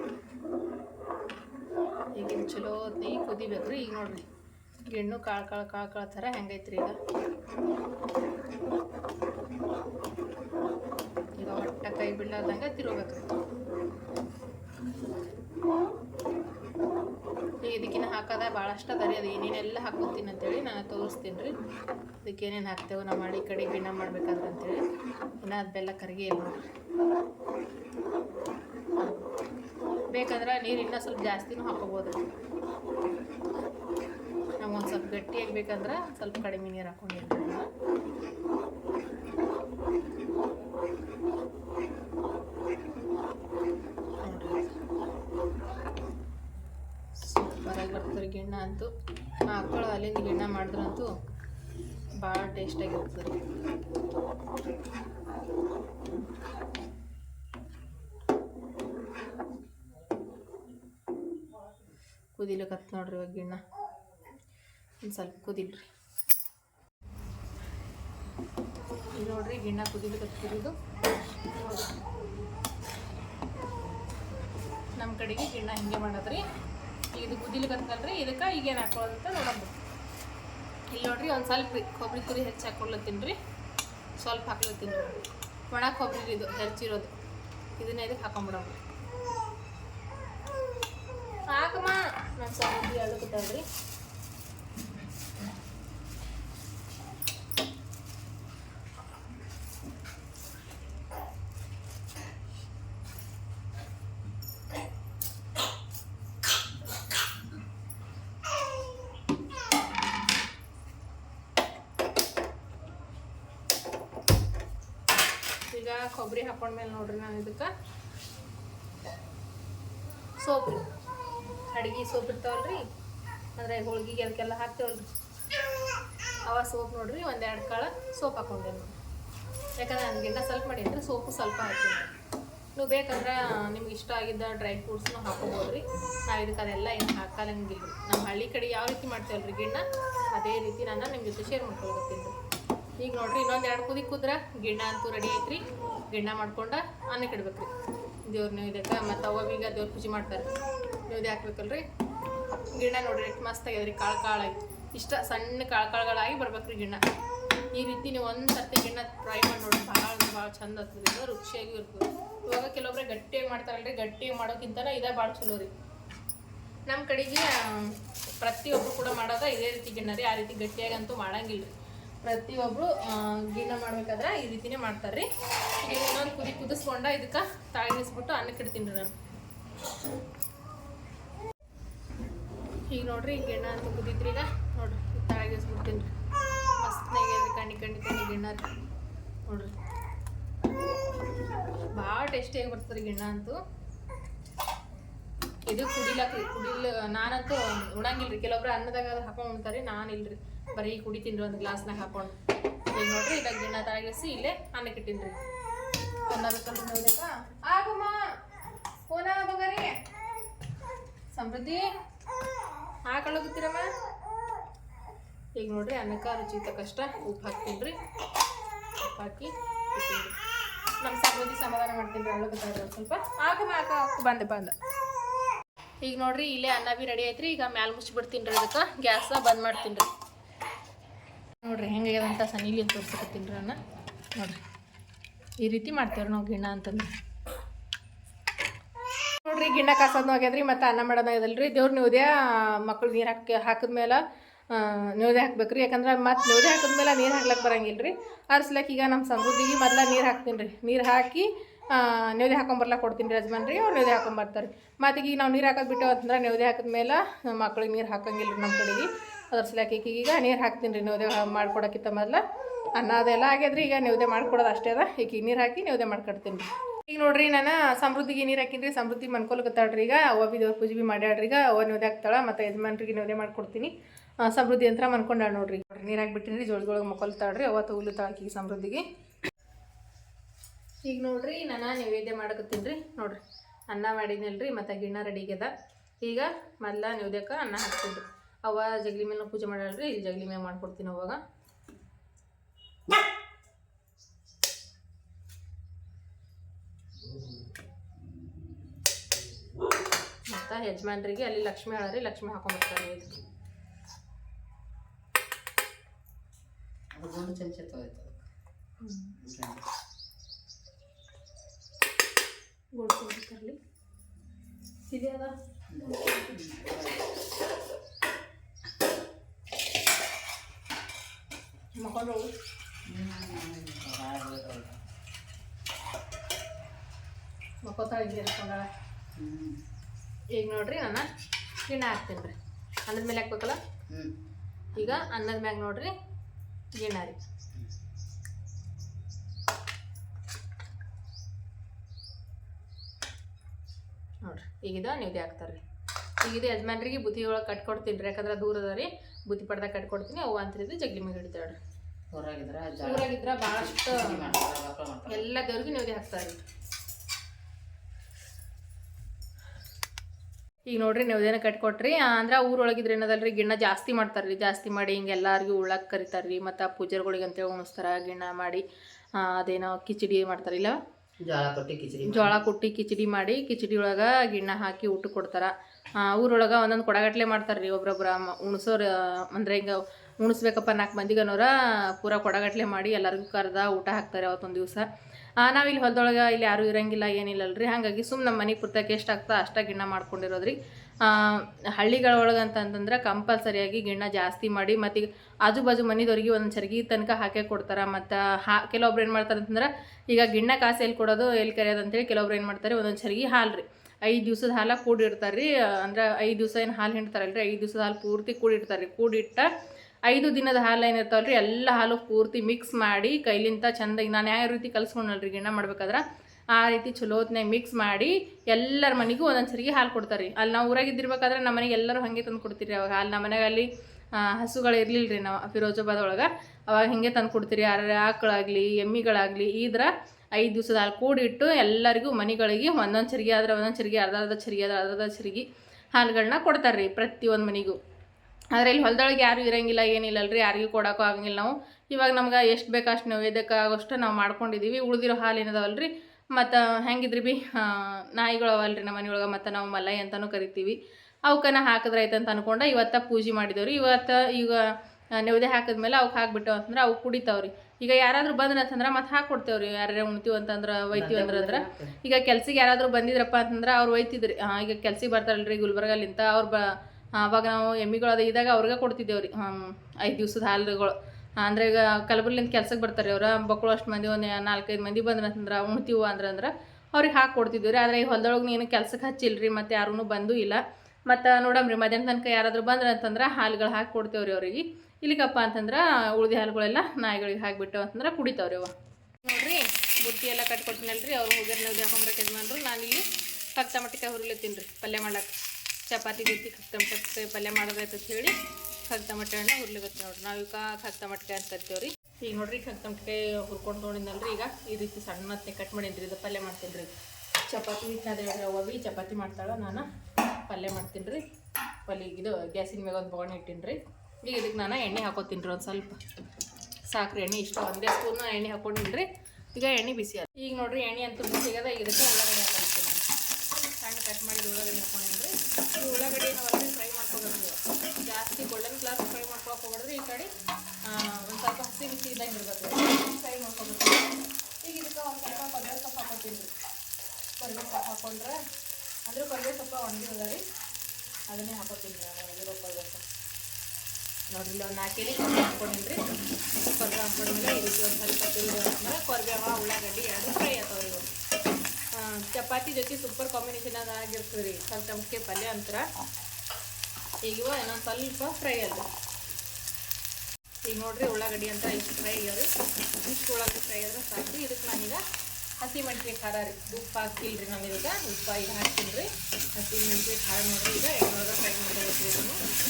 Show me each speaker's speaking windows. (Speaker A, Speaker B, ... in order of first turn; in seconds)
Speaker A: 2.1-4.2, 4.8-7.0, 11.4-13.3, 17.6-21.5, 22.2-24.8, 25.4-26.6, 30.1-32.2, 34.6-37.7, 44.2-44.7, 47.2-48.9, 49.5-51.1, 52.2-53.4, 62.4-63.6, 65.0-65.8, 69.2-70.7, 71.6-71.9, 75.0-76.4, 77.1-79.8, 80.9-83.3, 84.2-87.1, 87.8-88.8, 91.5-93.6, 115.7-117.7, 120.4-120.8, 121.7-122.8, 123.6-125.1, 126.5-128.9, 129.8-132.1, 132.7-142.3, 143.0-147.7, 148.2-150.5, 151.1-151.8, 152.7-157.0, 157.7-165.7, 166.9-171.7, 172.2-175.3, 175.8-179.1, 182.9-186.1, 186.8-188.7, 189.5-189.7, 191.9-193.6, 195.6-202.3, 202.9-205.4, 206.3-208.3, 209.1-210.0, 211.3-211.9, 213.1-213.9, 215.6-218.0, 219.0-220.3, 221.0-224.7, 226.0-230.1, 231.6-233.8, 234.3-234.6, 235.6-237.1, 239.4-262.4, 262.9-279.0, 281.0-291.4, 300.5-303.3, 309.0-309.3, 313.0-313.8, 315.1-315.5, 322.0-322.5, 327.8-328.9, 330.5-331.3, 331.9-332.5, 333.1-333.8, 334.9-336.1, 337.0-337.4, 344.4-345.8, 346.4-351.8, 353.0-354.6, 355.3-356.6, 360.9-368.8, 369.3-371.0, 372.2-385.1, 385.6-409.7, 410.3-416.2, 416.7-438.0, 438.7-450.9, 451.5-488.9, 489.4-493.2, 493.8-495.5, 496.1-498.6, 499.1-507.1, 507.7-510.1, 510.7-511.4, 512.1-516.2, 517.1-523.2, 524.0-530.5, 531.1-536.7, 537.6-538.6, 539.3-540.6, 541.5-543.2, 544.5-546.2, 546.8-551.3, 552.1-556.0, 557.4-559.0, 560.9-562.7, 563.2-565.2, 565.8-572.6
Speaker B: 298.2-298.8, 307.1-308.4, 309.4-309.8, 315.9-317.3, 323.0-325.0, 329.4-329.8, 334.1-334.3, 335.0-335.2, 352.3-355.5, 371.4-372.6, 461.1-462.1